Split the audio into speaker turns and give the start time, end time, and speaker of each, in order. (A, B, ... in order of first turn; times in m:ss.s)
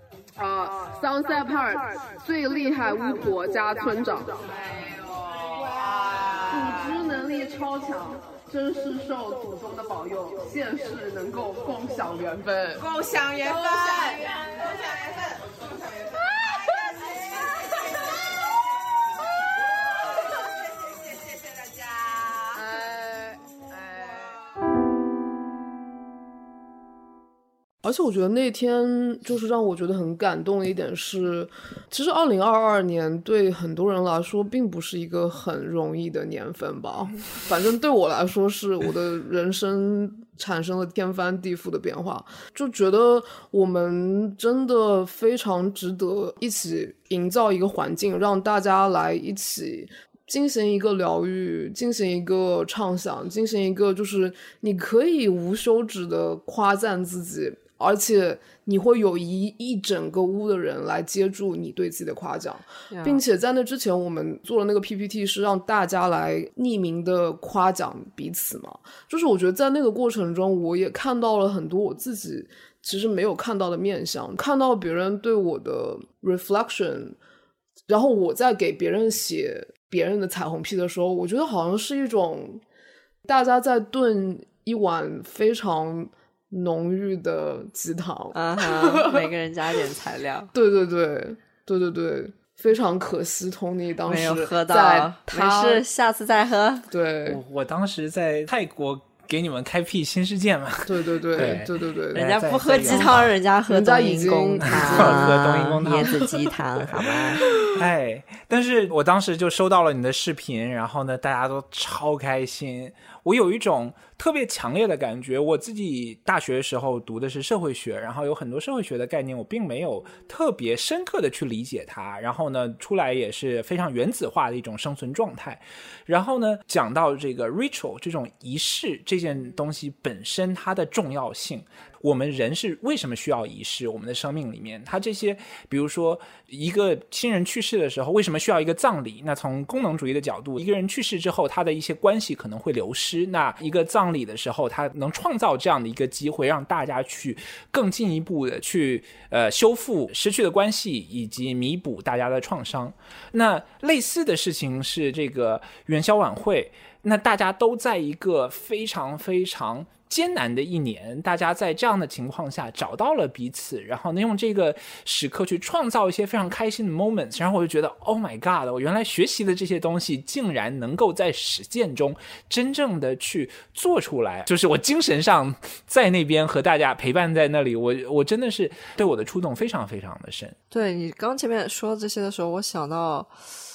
0:00.4-0:14.2 A
0:05.5-0:07.0 B
0:12.8-0:15.6 B
0:21.4-0:22.4 B
0:27.8-1:17.2 A
1:02.9-1:03.2 C
1:17.9-1:22.6 A
1:23.2-1:29.2 A
1:28.3-1:30.5 C
1:30.5-1:35.8 A
1:34.0-1:36.9 C
1:36.9-1:37.4 A
1:37.2-1:43.3 D
1:40.8-1:42.3 A
1:42.1-1:47.4 C
1:42.8-1:43.1 A
1:43.7-1:45.5 A
1:44.8-3:00.6 D
3:00.7-3:03.3 C